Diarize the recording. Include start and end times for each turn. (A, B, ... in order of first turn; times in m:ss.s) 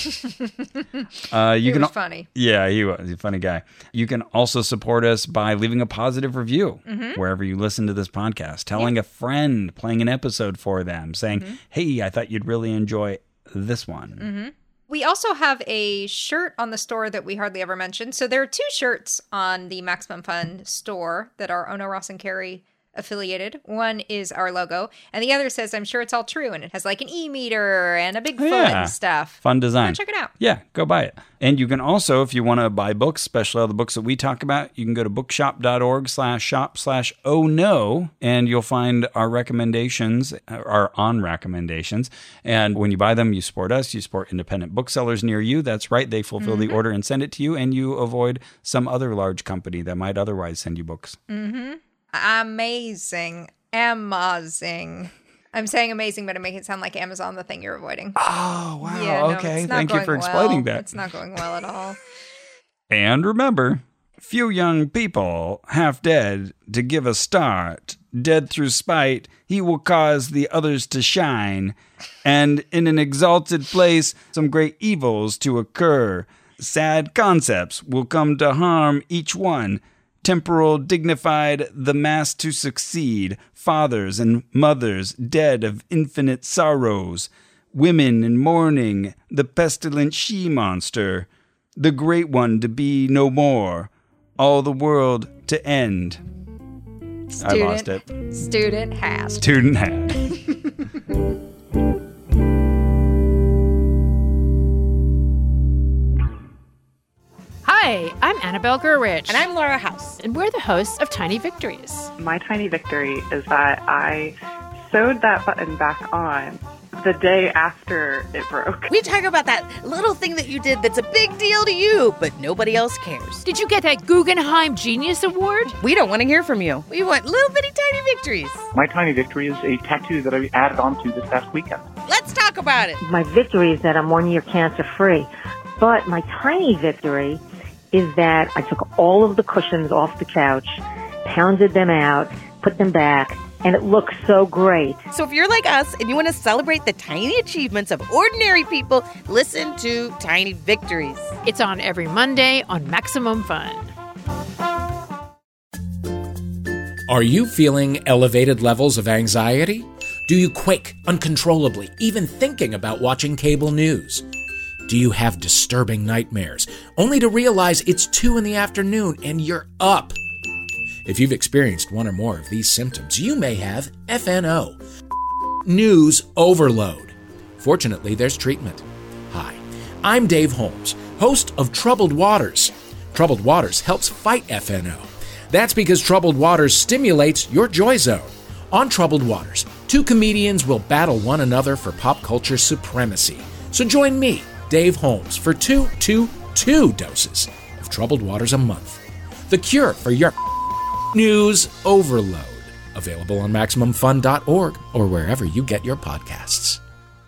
0:00.1-0:01.0 A
0:01.3-0:14.3 B
0:01.6-0:02.3 A
0:06.9-0:07.2 A
0:11.3-0:11.6 A
0:14.2-0:30.3 A
0:28.4-0:51.2 B
0:46.4-0:46.8 A
0:51.3-0:58.2 A
0:58.2-1:01.0 B
0:58.8-1:02.0 A
1:02.9-1:36.2 B
1:37.3-1:39.5 A
1:37.4-1:38.0 B
1:39.4-1:40.2 B
1:40.3-1:40.6 A
1:47.6-1:49.5 C
1:49.3-1:50.2 D
1:50.2-1:52.1 C
1:52.2-1:58.9 E
1:58.9-2:03.4 D
2:03.4-2:05.8 C
2:05.8-2:08.7 D
2:08.7-2:11.8 F
2:12.1-2:13.0 D
2:13.0-2:25.0 G
2:25.1-2:31.3 D
2:31.4-2:33.9 C
2:37.1-2:44.3 H
2:44.8-2:50.2 H
2:51.0-2:54.8 H
2:55.6-3:20.4 H
3:21.1-3:26.8 H